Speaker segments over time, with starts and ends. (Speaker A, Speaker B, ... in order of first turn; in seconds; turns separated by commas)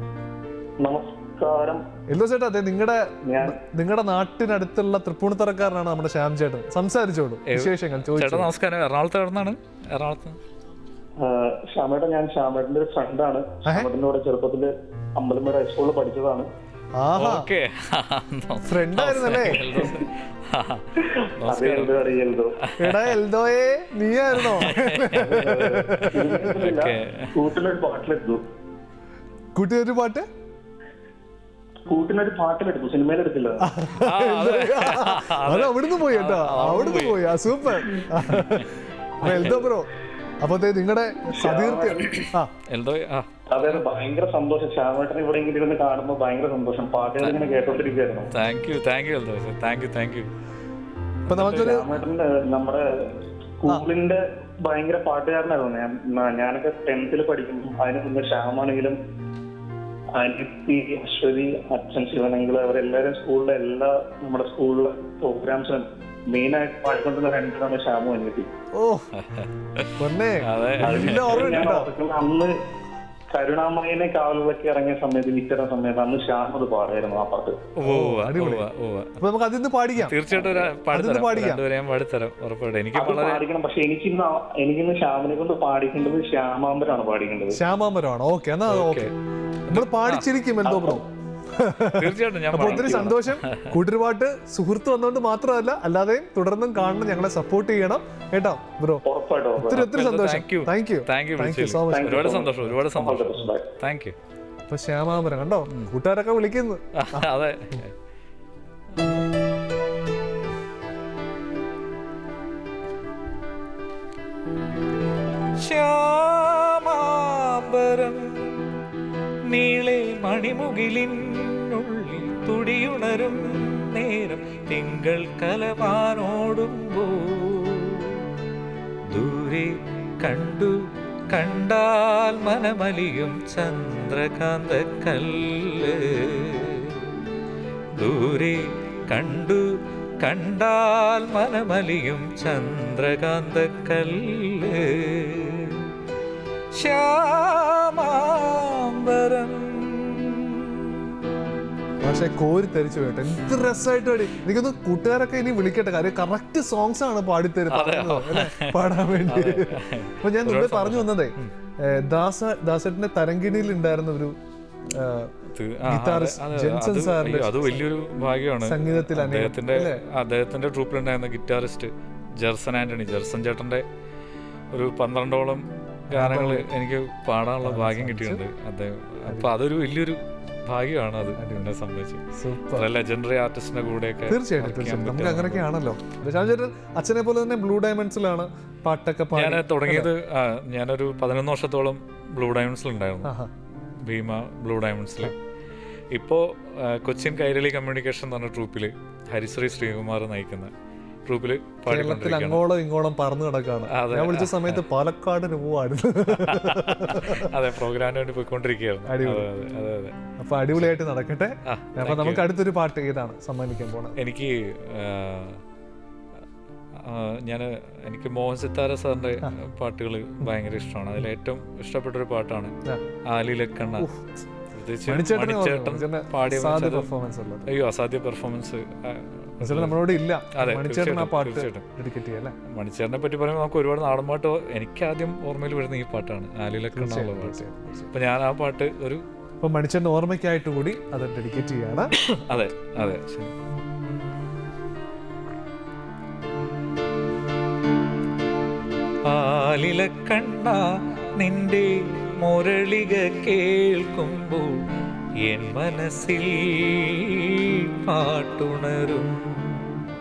Speaker A: 0.8-1.8, Speaker B: 2.1-8.5, Speaker A: 3.3-3.6, Speaker C: 7.5-10.4, Speaker A: 11.2-16.5, Speaker B: 17.0-17.5, Speaker C: 17.2-21.9, Speaker B: 18.6-19.8, Speaker A: 21.0-22.6, Speaker C: 22.6-23.1, Speaker B: 22.8-26.3, Speaker C: 24.3-27.3, Speaker A: 25.5-28.4, Speaker B: 29.5-30.3, Speaker A: 31.9-33.7, Speaker B: 33.6-39.9, Speaker C: 34.0-38.7, Speaker C: 39.2-39.7, Speaker B: 40.4-42.5, Speaker A: 41.3-42.2, Speaker C: 42.7-43.8, Speaker A: 43.5-48.3, Speaker C: 47.2-47.4, Speaker C: 48.3-50.3, Speaker B: 51.3-51.9, Speaker C: 51.3-51.6, Speaker A: 51.4-52.9, Speaker A: 53.6-59.0, Speaker A: 60.1-68.5, Speaker B: 68.7-69.1, Speaker C: 69.2-71.6, Speaker B: 70.0-71.9, Speaker A: 70.8-72.5, Speaker A: 73.3-77.6, Speaker C: 77.8-79.2, Speaker B: 77.8-78.7, Speaker B: 79.2-81.6, Speaker C: 79.9-83.4, Speaker A: 82.9-87.6, Speaker B: 87.5-89.1, Speaker C: 88.7-89.1, Speaker C: 89.7-90.2, Speaker B: 89.7-99.0, Speaker A: 90.6-91.0, Speaker C: 91.9-93.7, Speaker A: 92.6-92.9, Speaker A: 99.0-99.8, Speaker B: 99.5-102.5, Speaker C: 99.8-104.2, Speaker A: 101.9-103.7, Speaker B: 104.7-107.3, Speaker C: 106.9-107.9, Speaker C: 115.5-118.6, Speaker C: 119.5-128.2, Speaker C: 129.1-137.0, Speaker C: 138.0-145.8, Speaker C: 146.7-150.8, Speaker B: 152.0-165.3, Speaker C: 157.7-161.5, Speaker C: 165.5-173.8, Speaker B: 165.8-167.8, Speaker B: 168.6-170.0, Speaker C: 174.7-185.7, Speaker B: 176.1-176.7, Speaker B: 177.6-178.4, Speaker B: 179.3-179.5, Speaker B: 181.3-181.7, Speaker B: 182.3-182.9, Speaker B: 184.3-190.1, Speaker C: 189.3-193.3, Speaker B: 193.2-193.5, Speaker C: 194.0-195.3, Speaker C: 196.1-200.7, Speaker C: 201.2-202.6, Speaker B: 201.8-207.5, Speaker C: 203.9-204.8, Speaker C: 206.3-210.2, Speaker B: 209.1-209.5, Speaker B: 210.4-214.2, Speaker C: 211.6-212.4, Speaker C: 214.2-215.6, Speaker C: 217.0-222.7, Speaker C: 223.2-224.1, Speaker B: 224.0-224.4, Speaker C: 224.7-227.1, Speaker B: 225.1-227.7, Speaker C: 227.7-230.0, Speaker B: 229.6-232.5, Speaker C: 230.5-231.8, Speaker C: 232.7-239.2, Speaker B: 236.9-238.1, Speaker B: 239.6-242.1, Speaker C: 242.2-244.5, Speaker C: 249.2-254.9, Speaker C: 255.4-260.0